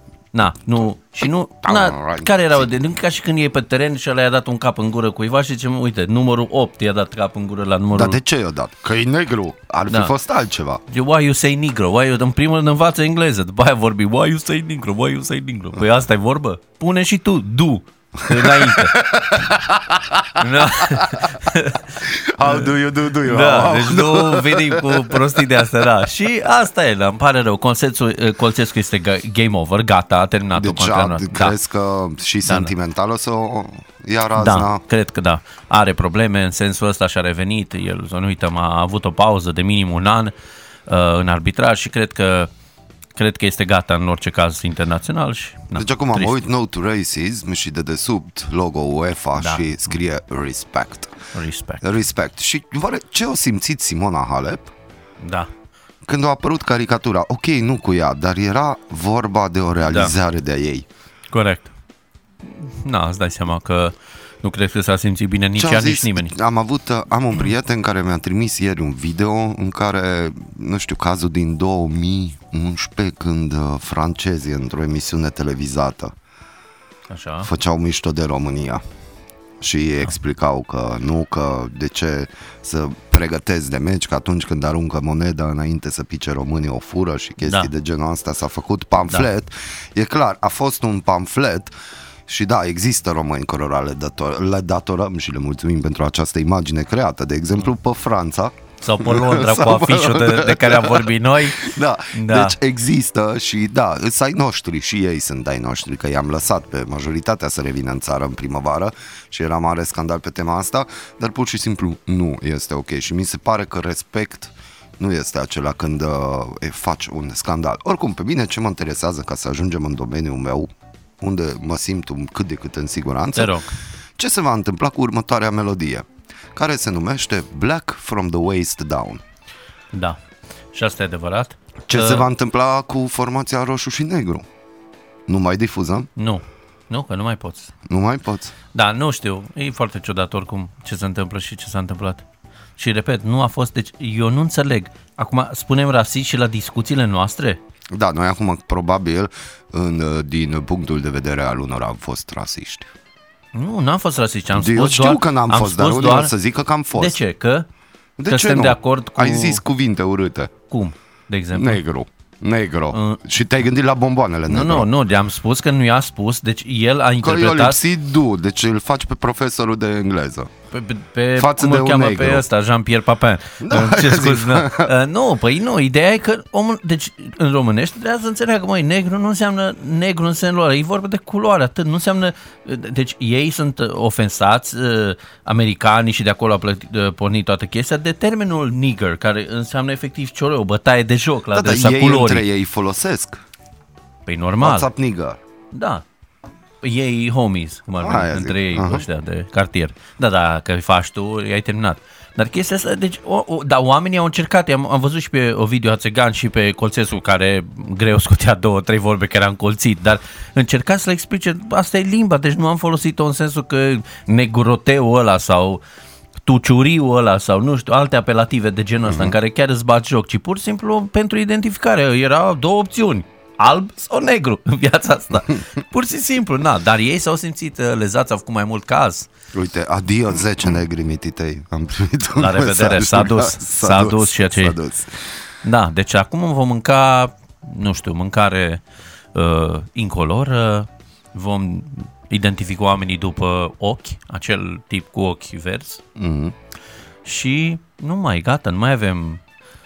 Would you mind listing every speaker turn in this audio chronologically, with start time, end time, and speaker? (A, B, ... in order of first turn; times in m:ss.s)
0:00.3-0:08.2 A
0:01.6-0:02.8 B
0:07.9-0:10.8 B
0:10.9-0:19.0 A
0:18.2-0:21.3 B
0:20.4-0:31.6 A
0:22.0-0:25.7 B
0:30.5-0:34.8 B
0:32.4-0:32.7 A
0:34.4-0:40.3 A
0:40.9-0:42.5 A
0:43.2-0:46.4 A
0:45.8-0:51.1 B
0:49.4-0:49.7 A
0:51.3-0:51.8 A
0:51.8-0:54.7 B
0:55.2-0:55.5 A
0:56.0-1:00.9 B
0:59.8-1:00.1 A
1:01.3-1:01.7 A
1:02.4-1:06.4 A
1:05.6-1:16.1 B
1:17.1-1:17.5 A
1:17.4-1:18.8 B
1:19.6-1:31.7 B
1:27.4-1:27.7 A
1:32.3-2:00.7 B
1:38.8-1:42.6 A
2:01.2-2:03.6 B
2:03.4-2:03.7 A
2:04.2-2:09.2 B
2:09.9-2:10.2 A
2:10.7-2:12.3 A
2:11.9-2:14.4 B
2:15.3-2:16.1 B
2:16.2-2:17.7 A
2:17.9-2:18.5 B
2:18.7-2:22.2 A
2:22.8-2:27.6 A
2:27.9-2:32.9 B
2:33.5-2:36.3 A
2:34.5-2:37.2 B
2:37.0-2:37.7 A
2:38.2-2:40.5 B
2:38.3-2:39.6 A
2:40.7-2:41.8 A
2:41.5-2:44.9 B
2:42.9-2:43.2 A
2:44.5-2:47.8 A
2:47.2-2:50.5 B
2:50.7-3:12.4 A
2:51.4-2:52.4 B
2:53.6-2:54.9 B
3:11.5-3:13.4 B
3:14.3-3:14.9 A
3:14.6-3:15.4 B
3:15.7-3:16.0 A
3:16.8-3:35.8 A
3:18.0-3:19.1 B
3:36.4-3:49.3 A
3:39.1-3:39.4 B
3:49.5-3:55.3 B
3:52.4-3:54.8 A
3:55.6-3:58.8 A
3:59.3-4:06.0 A
4:06.2-4:06.6 B
4:07.2-4:09.4 A